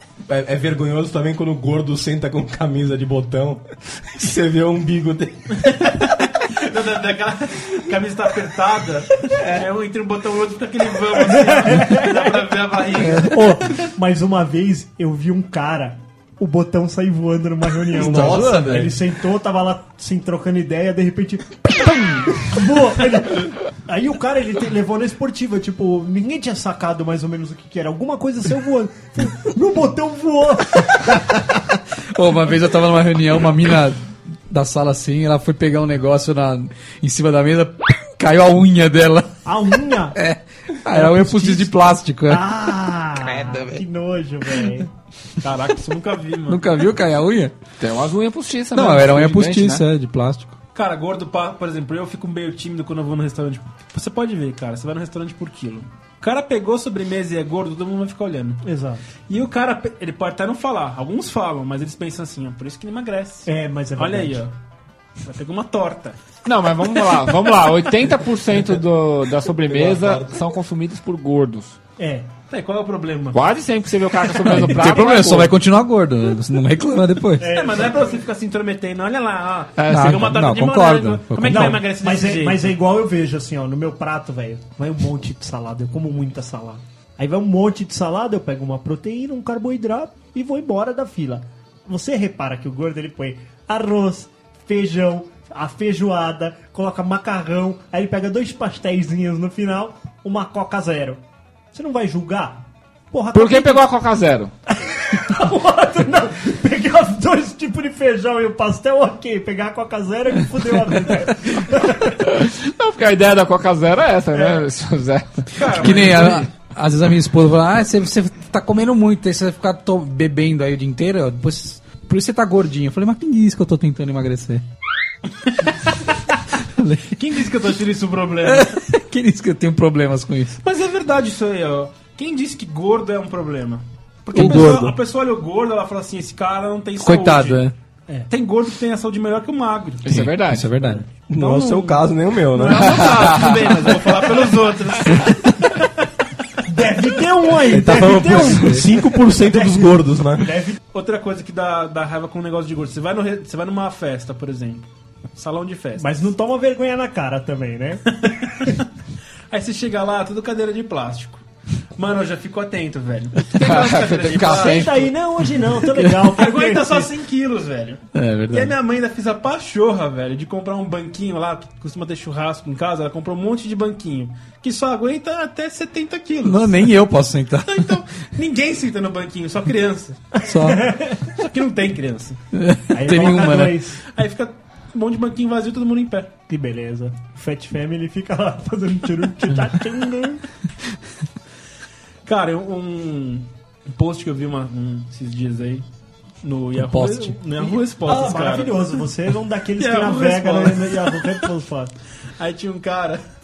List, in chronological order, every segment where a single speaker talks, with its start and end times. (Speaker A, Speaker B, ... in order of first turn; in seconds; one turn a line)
Speaker A: 0.3-5.8
Speaker B: 5.7-13.4
Speaker A: 9.4-9.7
Speaker C: 11.3-31.4
Speaker D: 13.2-13.4
Speaker A: 17.9-18.9
Speaker D: 17.9-18.9
Speaker D: 32.1-39.3
Speaker C: 39.5-40.2
Speaker D: 40.1-42.4
Speaker C: 40.9-44.9
Speaker D: 43.4-43.6
Speaker B: 45.4-46.6
Speaker D: 46.5-47.5
Speaker E: 47.8-49.8
Speaker D: 48.7-50.6
Speaker B: 50.7-58.6
Speaker C: 58.6-59.0
Speaker B: 59.3-64.5
Speaker C: 63.5-64.5
Speaker B: 65.2-66.2
Speaker E: 66.5-71.8
Speaker A: 69.7-70.4
Speaker C: 72.0-72.3
Speaker B: 72.5-73.4
Speaker E: 73.3-75.5
Speaker D: 74.4-77.6
Speaker C: 77.4-78.2
Speaker B: 77.4-82.7
Speaker E: 79.8-80.4
Speaker D: 79.8-81.8
Speaker C: 81.5-101.2
Speaker C: 101.7-103.9
Speaker E: 103.3-104.5
Speaker C: 104.7-112.2
Speaker E: 112.2-116.4
Speaker B: 115.5-116.5
Speaker D: 115.8-124.6
Speaker D: 126.6-127.2
Speaker B: 127.2-128.8
Speaker D: 128.5-130.6
Speaker B: 130.6-137.6
Speaker D: 134.3-135.0
Speaker D: 137.0-137.8
Speaker B: 138.3-140.1
Speaker E: 140.1-140.8
Speaker D: 140.1-141.1
Speaker A: 141.3-143.2
Speaker B: 141.3-145.6
Speaker C: 146.6-150.8
Speaker A: 147.7-150.5
Speaker B: 150.9-156.2
Speaker C: 156.0-158.1
Speaker B: 158.2-158.8
Speaker B: 159.5-161.4
Speaker B: 162.0-164.8
Speaker E: 163.6-165.1
Speaker D: 164.3-164.8
Speaker C: 164.5-167.1
Speaker D: 166.0-166.2
Speaker B: 166.3-176.9
Speaker D: 168.1-168.8
Speaker D: 176.4-178.0
Speaker B: 177.6-180.3
Speaker D: 180.4-180.9
Speaker C: 180.5-181.2
Speaker B: 181.1-182.4
Speaker D: 182.5-183.8
Speaker C: 182.9-184.0
Speaker B: 184.1-186.3
Speaker C: 186.5-190.4
Speaker B: 192.3-195.8
Speaker B: 196.4-199.1
Speaker D: 196.8-197.4
Speaker C: 198.0-201.9
Speaker B: 199.8-201.3
Speaker B: 202.4-203.2